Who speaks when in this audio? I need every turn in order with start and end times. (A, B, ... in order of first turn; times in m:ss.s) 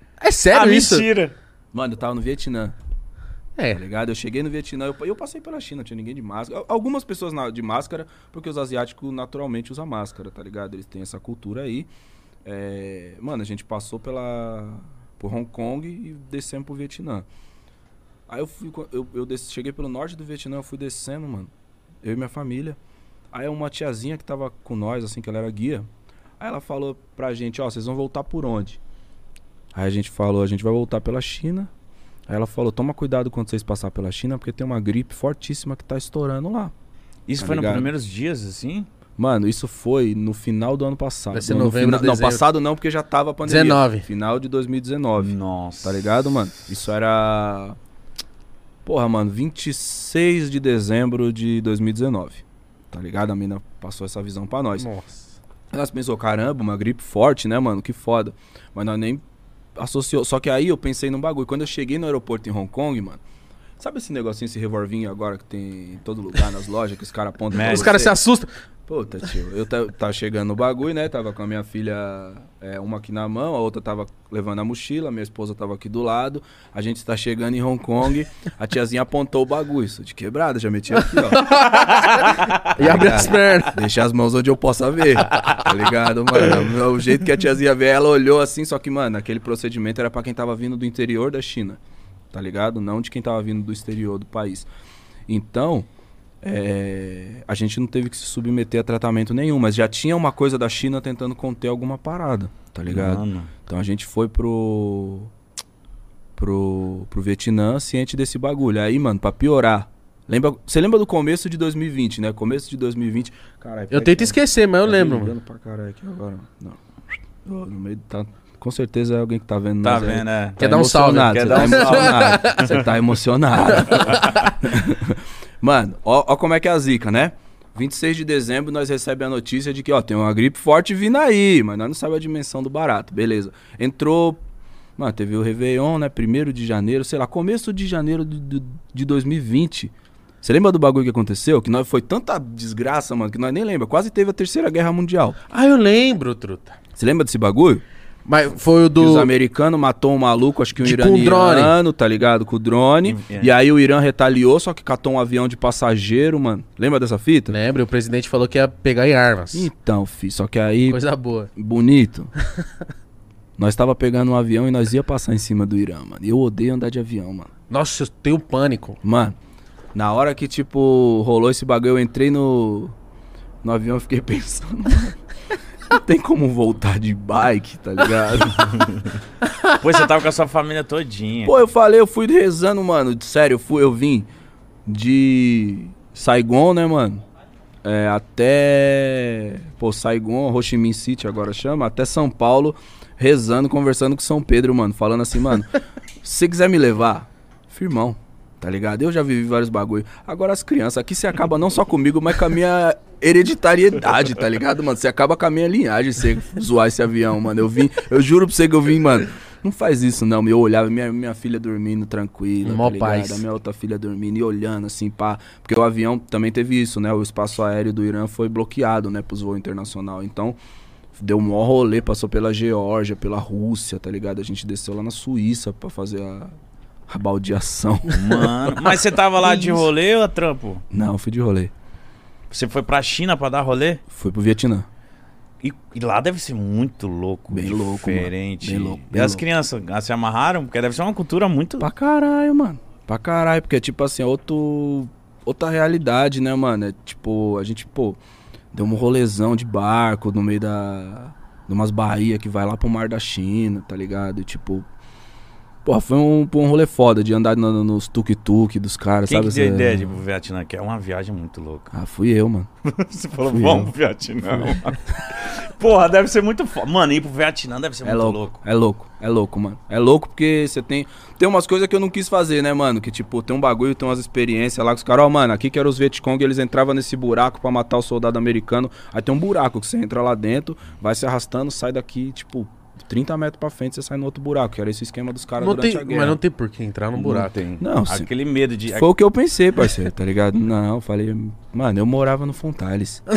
0:00.2-0:01.1 A
0:00.5-0:01.3 B
0:01.7-0:02.7 C
0:03.6-0:03.8 A
0:03.7-0:11.9 C
0:12.4-0:17.2 C
0:18.3-0:21.5 C
0:22.0-0:22.8 C
0:23.3-0:25.9 C
0:26.4-0:28.8 C
0:29.7-0:31.7 C
0:32.3-0:36.7 C
0:37.3-0:38.9 B
0:37.4-0:37.9 C
0:39.2-0:47.8 C
0:41.3-0:42.4 A
0:43.4-0:44.0 A
0:45.2-0:46.4 B
0:48.8-0:54.9 C
0:54.8-0:55.4 A
0:55.7-0:59.2 C
0:59.8-1:03.2 C
1:03.8-1:08.1 C
1:07.5-1:08.1 B
1:07.6-1:08.5 A
1:08.9-1:21.6 C
1:21.3-1:23.7 A
1:22.7-1:31.8 C
1:32.3-1:34.7 C
1:35.3-1:35.9 C
1:36.4-1:45.3 C
1:42.9-1:43.5 B
1:46.4-1:56.8 C
1:53.9-1:55.3 A
1:57.4-2:14.4 C
1:59.8-2:02.8 B
2:00.6-2:02.6 A
2:03.9-2:04.2 A
2:03.9-2:04.5 B
2:15.0-2:25.4 C
2:25.5-2:26.8 A
2:26.9-2:27.8 C
2:28.2-2:29.3 A
2:29.0-2:37.6 C
2:30.8-2:31.8 A
2:33.0-2:33.5 B
2:37.5-2:39.7 A
2:39.5-2:41.0 C
2:40.9-2:41.5 A
2:41.6-2:42.3 C
2:43.6-2:47.5 C
2:47.7-2:49.0 A
2:49.0-2:49.4 C
2:49.9-2:52.9 C
2:53.6-2:55.2 C
2:55.9-2:58.8 C
2:58.6-2:59.1 B
2:59.7-3:01.5 B
3:01.4-3:04.3 C
3:04.8-3:07.2 C
3:07.8-3:40.6 C
3:32.6-3:33.4 A
3:41.2-3:46.5 C
3:47.1-3:48.6 C
3:48.1-3:50.8 B
3:50.9-3:51.7 C
3:52.5-3:54.0 B
3:54.1-3:54.9 C
3:55.6-4:01.9 B
3:57.5-3:59.4 C
4:01.8-4:08.2 C
4:08.7-4:14.8 C
4:15.8-4:20.2 C
4:19.2-4:21.9 B
4:21.9-4:22.7 C
4:22.8-4:28.6 B
4:23.5-4:23.9 C
4:28.0-4:46.4 C
4:45.6-4:47.8 A
4:47.2-4:48.3 C
4:47.6-4:49.1 B
4:48.9-4:53.2 C